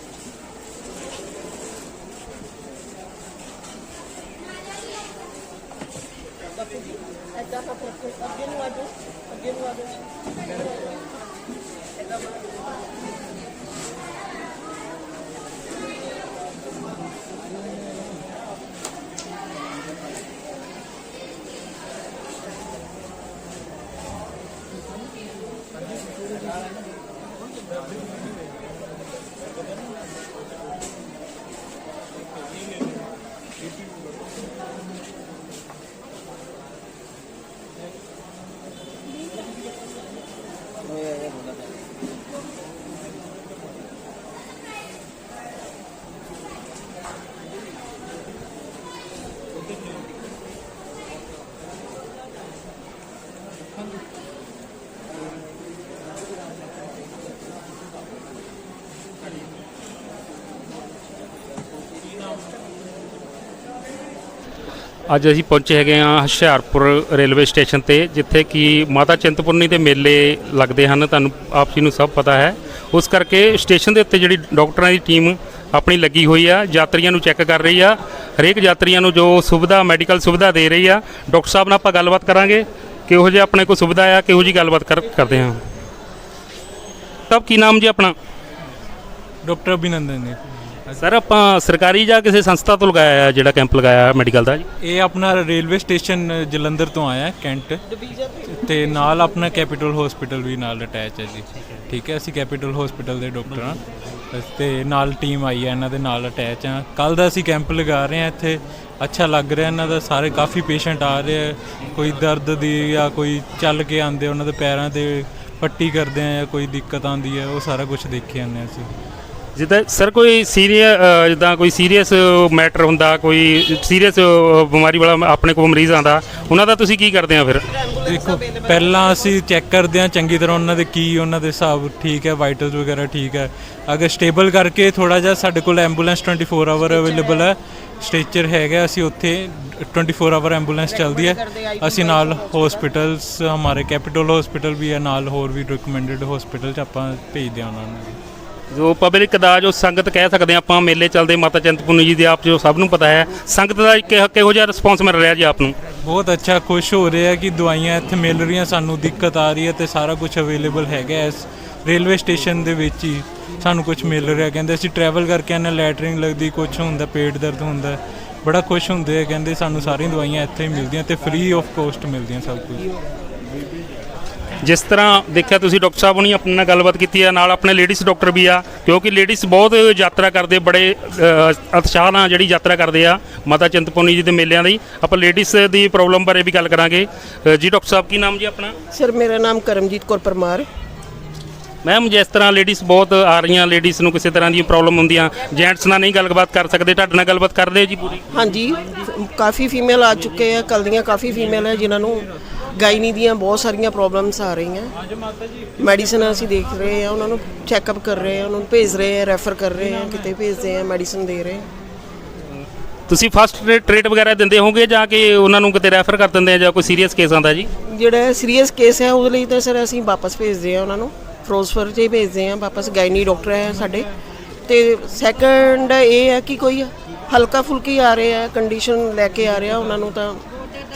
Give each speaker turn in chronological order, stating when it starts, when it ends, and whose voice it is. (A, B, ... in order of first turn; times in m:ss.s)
1:05.1-1:25.6 A
1:27.3-1:28.2 A
1:29.4-1:31.0 B
1:31.0-1:34.6 A
1:34.8-1:37.8 B
1:37.9-1:39.2 C
1:38.5-1:43.8 B
1:41.5-1:41.8 A
1:43.5-1:43.8 A
1:44.3-1:58.9 B
1:59.6-2:07.6 A
2:07.7-2:09.4 C
2:08.0-2:28.2 B
2:16.8-2:17.5 C
2:20.8-2:22.9 C
2:28.7-2:35.8 A
2:36.0-2:52.9 B
2:54.6-3:08.8 A
3:08.9-3:10.7 C
3:11.8-3:18.2 A
3:18.3-3:24.9 C
3:25.8-3:31.7 C
3:33.1-3:37.7 A
3:37.8-3:44.1 C
3:44.7-3:50.4 C